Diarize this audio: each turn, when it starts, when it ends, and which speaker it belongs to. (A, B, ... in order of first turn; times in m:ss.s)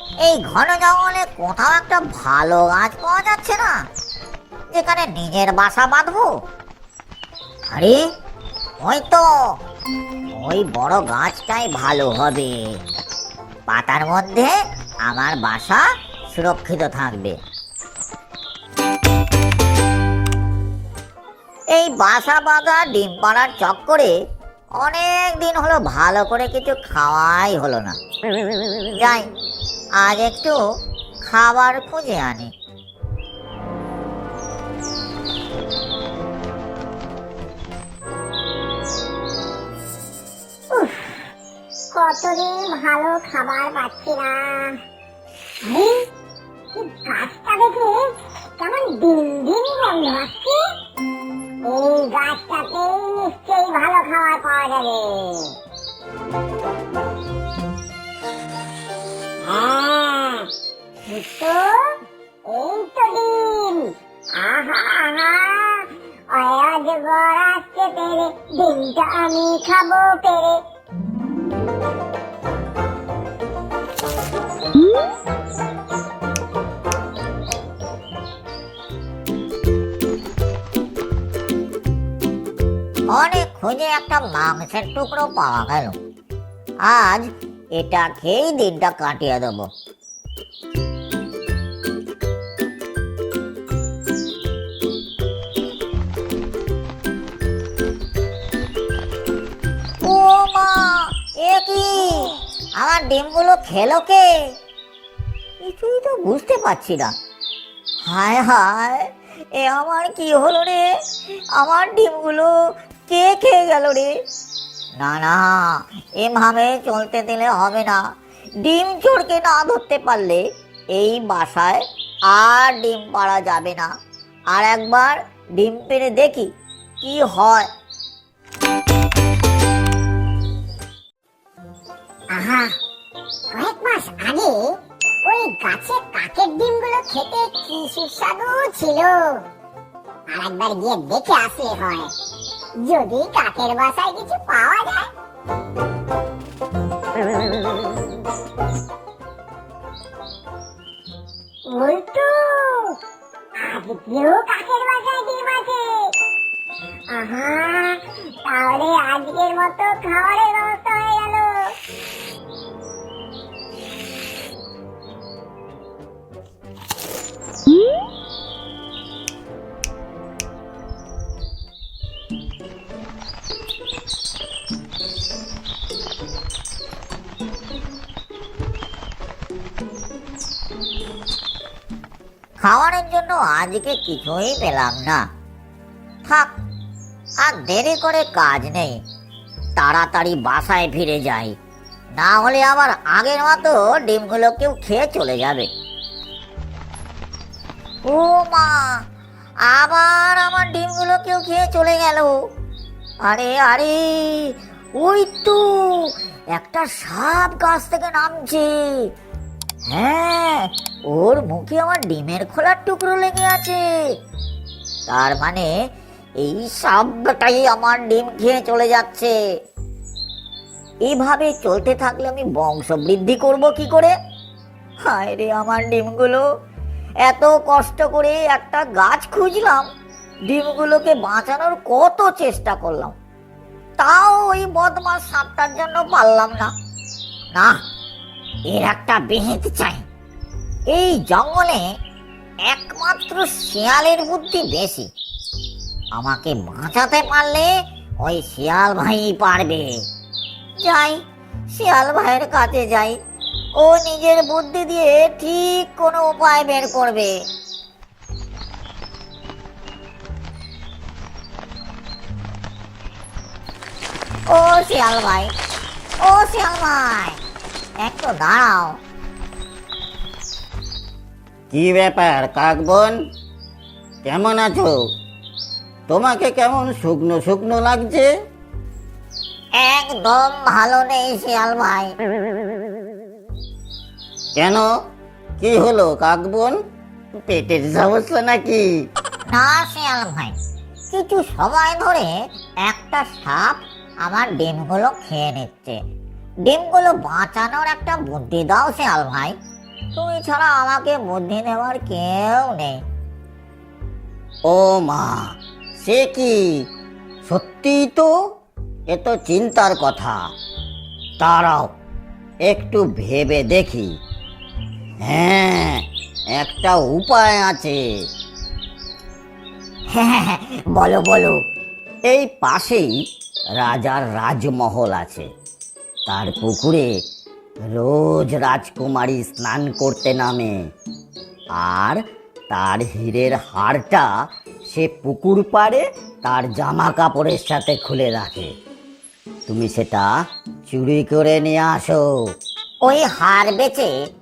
0:00.2-0:03.7 A
0:04.7-0:06.3 A
0:07.7-0:08.0 A
0:08.8-0:09.2 A
0:10.3-0:12.6 A
0:13.7-0:14.5 A
0:15.0-0:17.4 A
0:21.7-0:24.1 A
0:24.8-0:28.0 A
0:29.0-0:29.2 A
0:30.0-0:30.6 A
0:31.2-0:32.5 A
0:40.7-0:41.2 B
0:41.9-0:44.8 B
0:45.6-0:46.1 B
0:46.7-0:50.7 B
0:51.6-0:55.6 B
0:59.4-1:00.5 B
1:01.0-1:10.6 B
1:23.1-1:25.9 A
1:26.8-1:29.7 A
1:40.0-1:44.3 A
1:45.6-1:47.1 A
1:48.1-1:50.9 A
1:51.5-1:52.5 A
1:53.1-1:54.1 A
1:55.0-1:58.0 A
1:58.6-2:00.4 A
2:00.9-2:03.9 A
2:04.5-2:06.5 A
2:07.0-2:07.7 A
2:12.3-2:12.8 B
2:13.5-2:19.4 B
2:20.3-2:22.1 B
2:22.8-2:25.1 B
2:31.6-2:33.0 B
2:33.5-2:36.2 B
2:37.1-2:41.8 B
3:02.6-3:05.2 A
3:06.2-3:06.5 A
3:07.4-3:09.0 A
3:09.8-3:11.6 A
3:12.1-3:15.7 A
3:18.1-3:19.0 A
3:19.7-3:22.3 A
3:23.2-3:29.0 A
3:29.9-3:33.8 A
3:35.1-3:35.7 A
3:36.4-3:39.3 A
3:41.0-3:44.1 A
3:45.0-3:46.4 A
3:47.2-3:49.9 A
3:50.5-3:53.1 A
3:54.0-3:56.7 A
3:58.7-4:00.0 A
4:00.9-4:01.9 A
4:02.7-4:05.1 A
4:06.1-4:07.7 A
4:08.2-4:09.9 A
4:10.8-4:13.1 A
4:13.8-4:17.3 A
4:24.5-4:25.5 A
4:26.2-4:27.4 A
4:28.0-4:29.0 A
4:31.7-4:33.2 C
4:34.2-4:34.9 C
4:36.1-4:38.3 C
4:39.8-4:42.1 A
4:44.6-4:44.8 C
4:45.6-4:46.8 C
4:47.4-4:48.8 C
4:49.5-4:50.5 A
4:51.1-4:52.3 A
4:52.8-4:56.0 A
4:56.7-4:59.6 A
5:00.1-5:03.0 A
5:04.7-5:06.6 C
5:07.4-5:08.3 C
5:09.1-5:10.4 C
5:11.4-5:11.9 C
5:12.6-5:14.1 C
5:15.2-5:16.0 C
5:16.6-5:18.0 C
5:20.1-5:21.6 A
5:22.3-5:23.1 C
5:23.8-5:25.5 C
5:26.3-5:27.1 C
5:27.9-5:30.7 C
5:31.8-5:32.2 C
5:32.7-5:34.3 C
5:34.9-5:38.7 C
5:39.7-5:40.3 C
5:40.9-5:42.2 C
5:43.0-5:44.1 A